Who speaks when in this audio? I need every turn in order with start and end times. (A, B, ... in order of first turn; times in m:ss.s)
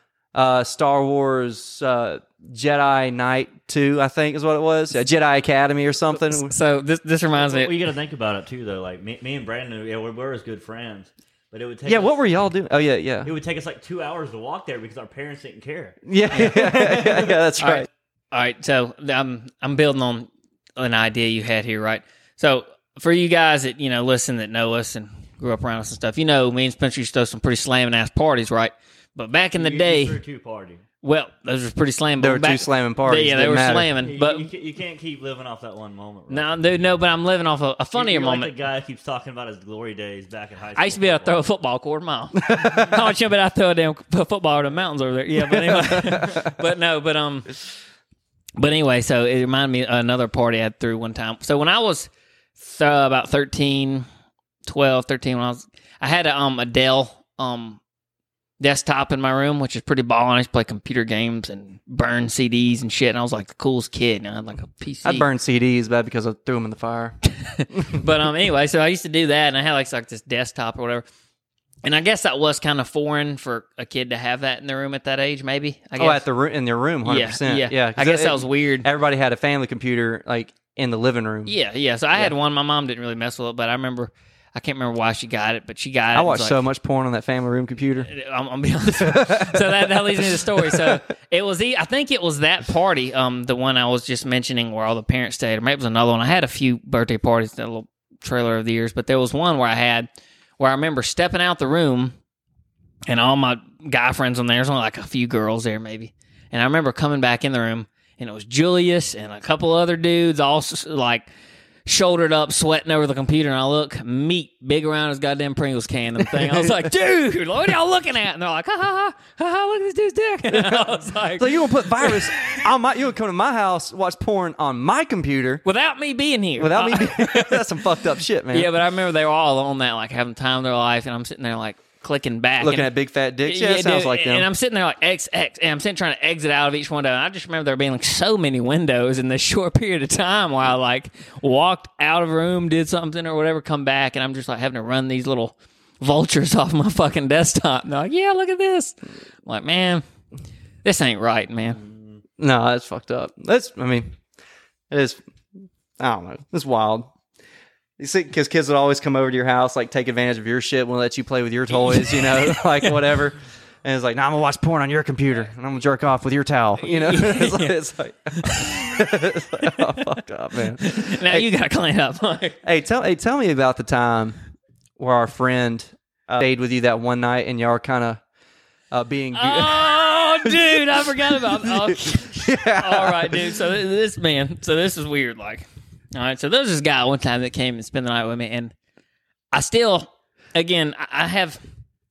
0:00.3-0:06.5 A
0:06.3-0:07.7 B
0:07.4-0:12.2 C
0:11.8-0:13.3 A
0:13.2-0:17.4 C
0:16.1-0:17.9 A
0:17.6-0:30.2 B
0:29.6-0:30.8 C
0:31.0-0:34.5 B
0:32.2-0:33.9 A
0:34.0-0:36.5 C
0:36.3-0:38.5 B
0:37.9-0:41.4 C
0:40.7-0:47.7 B
0:42.4-0:43.0 A
0:45.5-0:46.5 A
0:48.6-0:54.0 B
0:54.6-0:57.8 B
0:58.6-1:05.2 B
1:05.0-1:07.2 A
1:07.4-1:11.0 B
1:07.7-1:08.0 A
1:11.8-1:16.2 B
1:16.0-1:21.5 A
1:17.0-1:18.9 B
1:21.4-1:26.6 B
1:26.1-1:28.1 A
1:28.0-1:40.1 B
1:28.9-1:31.0 A
1:40.6-1:42.1 B
1:43.1-1:51.2 B
1:51.8-2:02.6 B
1:56.2-1:56.9 A
2:00.5-2:05.6 A
2:05.6-2:07.8 B
2:06.6-2:08.7 A
2:08.5-2:12.9 B
2:12.6-2:14.5 A
2:13.4-2:30.0 B
2:30.8-2:31.8 B
2:31.8-2:32.2 C
2:32.4-2:34.2 A
2:34.9-2:35.2 A
2:36.0-2:37.1 A
2:38.0-2:51.4 A
2:41.9-2:42.4 B
2:46.8-2:47.8 B
2:48.4-2:49.0 B
2:49.6-2:50.2 B
2:50.8-2:52.6 B
2:52.6-2:54.4 A
2:55.0-2:58.2 A
2:58.9-3:03.5 A
2:59.3-3:08.7 B
3:09.5-3:11.6 B